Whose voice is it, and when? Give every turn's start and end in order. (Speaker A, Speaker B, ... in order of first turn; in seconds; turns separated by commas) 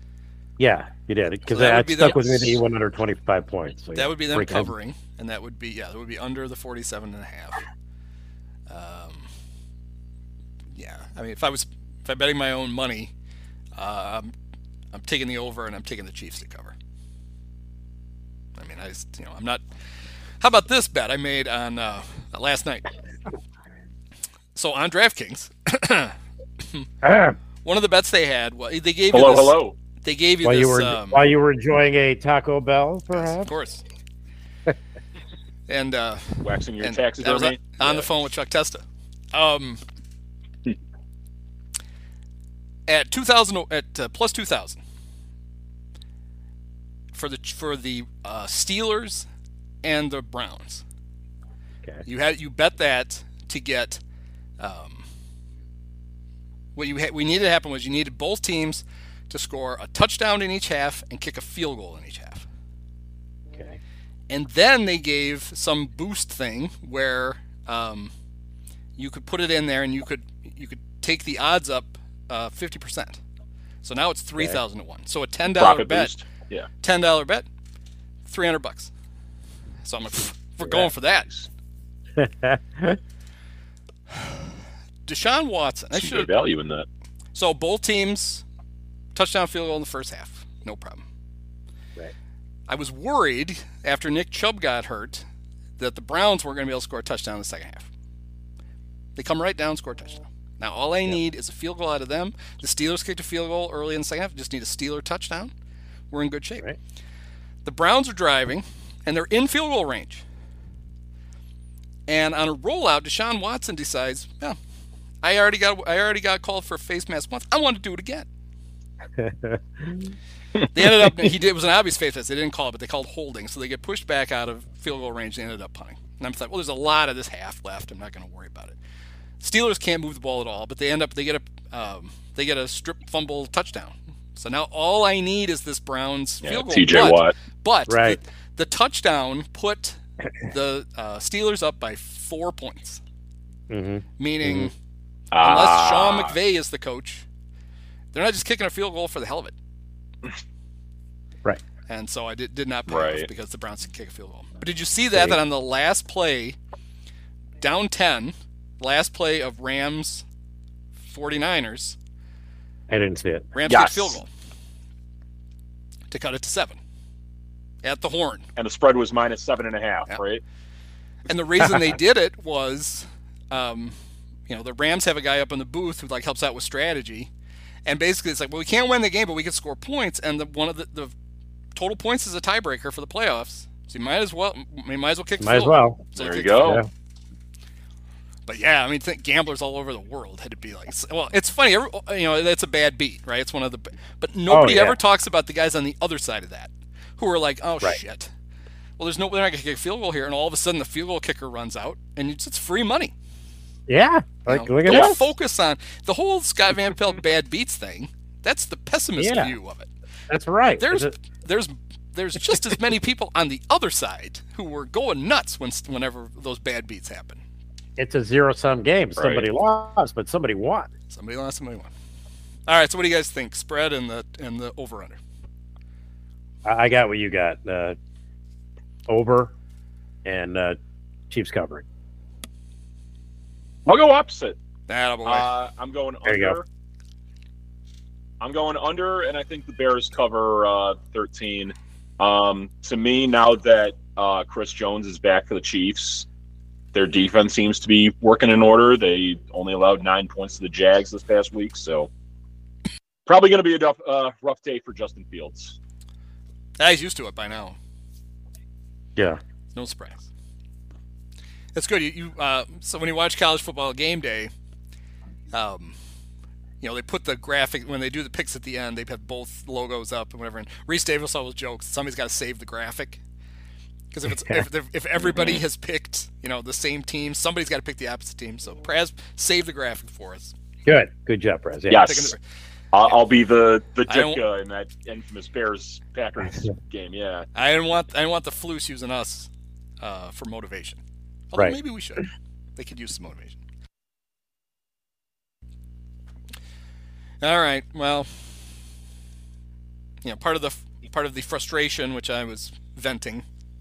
Speaker A: 0.6-4.7, Speaker B: 1.5-2.6, Speaker B: 3.9-7.6, Speaker B: 8.7-9.3, Speaker B: 10.7-13.1, Speaker B: 13.8-14.3, Speaker B: 14.9-16.8, Speaker B: 18.6-19.6, Speaker B: 20.4-22.9, Speaker B: 24.5-26.9, Speaker A: 27.0-27.4, Speaker B: 27.6-31.2, Speaker C: 29.1-29.7, Speaker A: 30.4-33.5, Speaker B: 33.1-33.8, Speaker B: 35.7-39.8, Speaker C: 36.4-38.1, Speaker B: 42.9-44.8, Speaker B: 47.1-49.3, Speaker B: 49.8-50.8, Speaker B: 52.0-54.0, Speaker B: 54.6-55.1, Speaker B: 56.8-62.5, Speaker A: 63.5-63.8, Speaker B: 64.3-68.1, Speaker B: 69.0-73.2, Speaker B: 73.8-76.1, Speaker C: 75.6-76.7, Speaker B: 76.8-77.5, Speaker B: 78.2-78.9, Speaker B: 79.8-81.4, Speaker A: 80.6-80.9, Speaker A: 82.2-83.0, Speaker B: 85.0-86.3, Speaker C: 85.9-86.8, Speaker B: 87.3-88.4, Speaker B: 89.1-91.0, Speaker B: 92.7-95.3, Speaker B: 95.8-97.9, Speaker B: 99.2-105.5, Speaker B: 106.1-106.7, Speaker B: 107.6-110.2, Speaker B: 112.1-114.6, Speaker B: 115.2-118.3, Speaker A: 119.2-120.1, Speaker B: 120.7-128.8, Speaker B: 129.4-143.0, Speaker C: 136.4-137.3, Speaker A: 137.9-138.2, Speaker A: 143.7-144.7, Speaker B: 144.2-144.7, Speaker C: 145.3-146.3, Speaker B: 145.4-147.2, Speaker B: 148.1-149.5, Speaker B: 151.9-156.6, Speaker C: 152.9-153.3, Speaker A: 155.1-155.4, Speaker B: 157.6-160.2, Speaker B: 161.1-162.0, Speaker A: 162.9-163.5, Speaker B: 163.5-164.3, Speaker C: 163.7-164.2, Speaker B: 166.1-166.8, Speaker B: 167.8-168.5, Speaker C: 168.6-170.4, Speaker B: 171.3-173.9, Speaker B: 174.5-177.3, Speaker B: 177.8-181.1, Speaker B: 181.7-186.8, Speaker A: 185.4-186.0, Speaker C: 186.1-186.8, Speaker B: 188.5-198.3, Speaker A: 194.5-195.0, Speaker B: 199.0-203.1, Speaker A: 203.9-205.2, Speaker B: 204.5-209.9, Speaker C: 204.9-205.1, Speaker A: 209.2-209.6, Speaker A: 210.3-211.1, Speaker B: 210.8-217.4, Speaker A: 218.0-220.9, Speaker C: 219.2-219.4, Speaker B: 221.1-221.9, Speaker B: 222.7-225.2, Speaker A: 226.6-228.0, Speaker A: 229.1-229.5, Speaker A: 230.2-230.8, Speaker A: 231.3-231.8, Speaker C: 233.8-234.6, Speaker B: 234.9-235.5, Speaker C: 235.2-236.6, Speaker A: 236.2-236.6, Speaker C: 238.4-246.2, Speaker C: 246.9-252.1, Speaker C: 253.2-255.8, Speaker B: 256.8-257.8, Speaker B: 259.7-260.3, Speaker B: 261.7-264.5, Speaker B: 265.5-266.0, Speaker B: 266.8-273.2, Speaker B: 274.1-280.5, Speaker A: 280.9-282.1, Speaker C: 281.9-282.3, Speaker B: 282.0-282.4, Speaker C: 282.9-287.5, Speaker B: 284.1-284.4, Speaker B: 287.5-291.0, Speaker B: 291.5-293.6, Speaker B: 297.4-298.8, Speaker B: 300.2-303.4